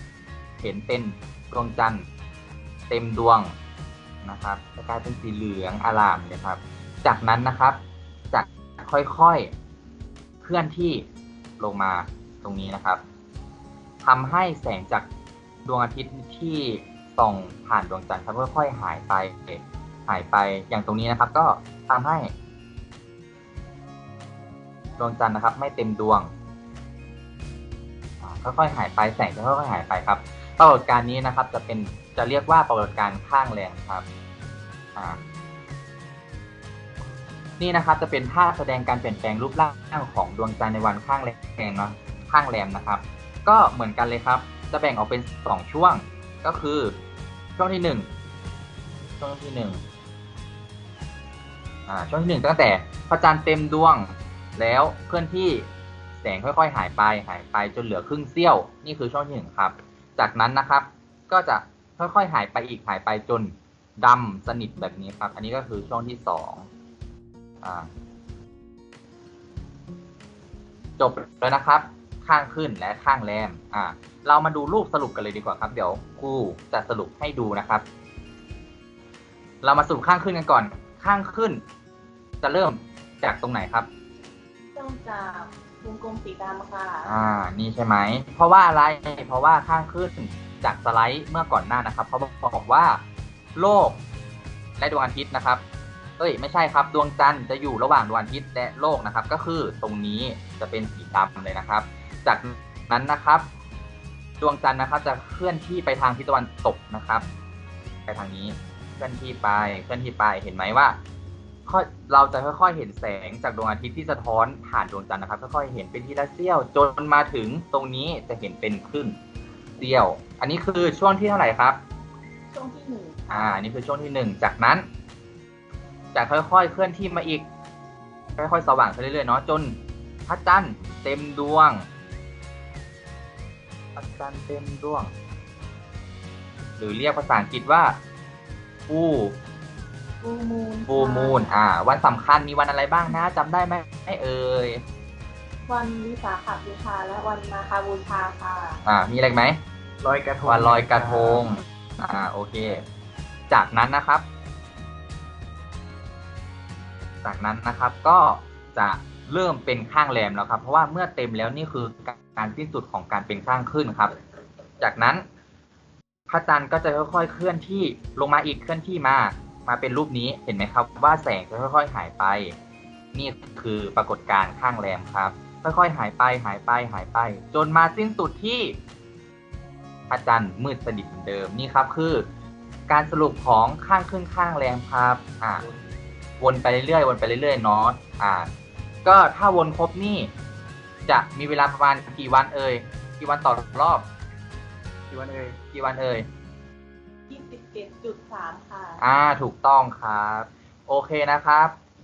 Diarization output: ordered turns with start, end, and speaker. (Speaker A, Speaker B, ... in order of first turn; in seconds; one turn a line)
Speaker A: 0.6-2.1
Speaker A: 2.9-3.5
Speaker A: 4.2-7.8
Speaker A: 8.3-9.5
Speaker A: 10.4-11.1
Speaker A: 11.6-13.0
Speaker A: 14.0-15.1
Speaker A: 15.6-22.3
Speaker A: 25.0-26.3
Speaker A: 28.2-34.0
Speaker A: 37.6-47.0
Speaker A: 47.6-48.1
Speaker A: 49.2-49.8
Speaker A: 51.9-55.7
Speaker A: 56.2-66.7
Speaker A: 67.6-67.9
Speaker A: 71.0-77.8
Speaker A: 79.6-81.6
Speaker A: 82.4-83.9
Speaker B: 84.8-87.1
Speaker A: 87.0-93.0
Speaker A: 93.6-94.0
Speaker A: 94.8-95.6
Speaker A: 96.2-103.5
Speaker A: 104.4-107.2
Speaker A: 108.1-111.0
Speaker A: 111.7-119.2
Speaker A: 119.8-121.8
Speaker B: 122.5-123.5
Speaker A: 123.3-124.9
Speaker A: 126.1-127.5
Speaker A: 128.4-131.9
Speaker A: 133.9-135.1
Speaker A: 136.8-138.0
Speaker A: 138.9-139.4
Speaker B: 140.2-141.6
Speaker A: 140.9-144.8
Speaker B: 145.7-148.8
Speaker A: 148.8-149.6
Speaker C: 150.0-151.4
Speaker A: 150.4-152.8
Speaker A: 153.5-154.2
Speaker A: 157.2-164.1
Speaker A: 164.8-165.2
Speaker A: 166.3-172.6
Speaker A: 173.1-178.8
Speaker A: 180.1-182.2
Speaker A: 182.9-185.7
Speaker A: 186.4-188.5
Speaker A: 189.1-190.3
Speaker A: 191.1-194.1
Speaker C: 195.1-195.6
Speaker A: 195.7-196.3
Speaker B: 197.3-199.0
Speaker A: 199.0-201.8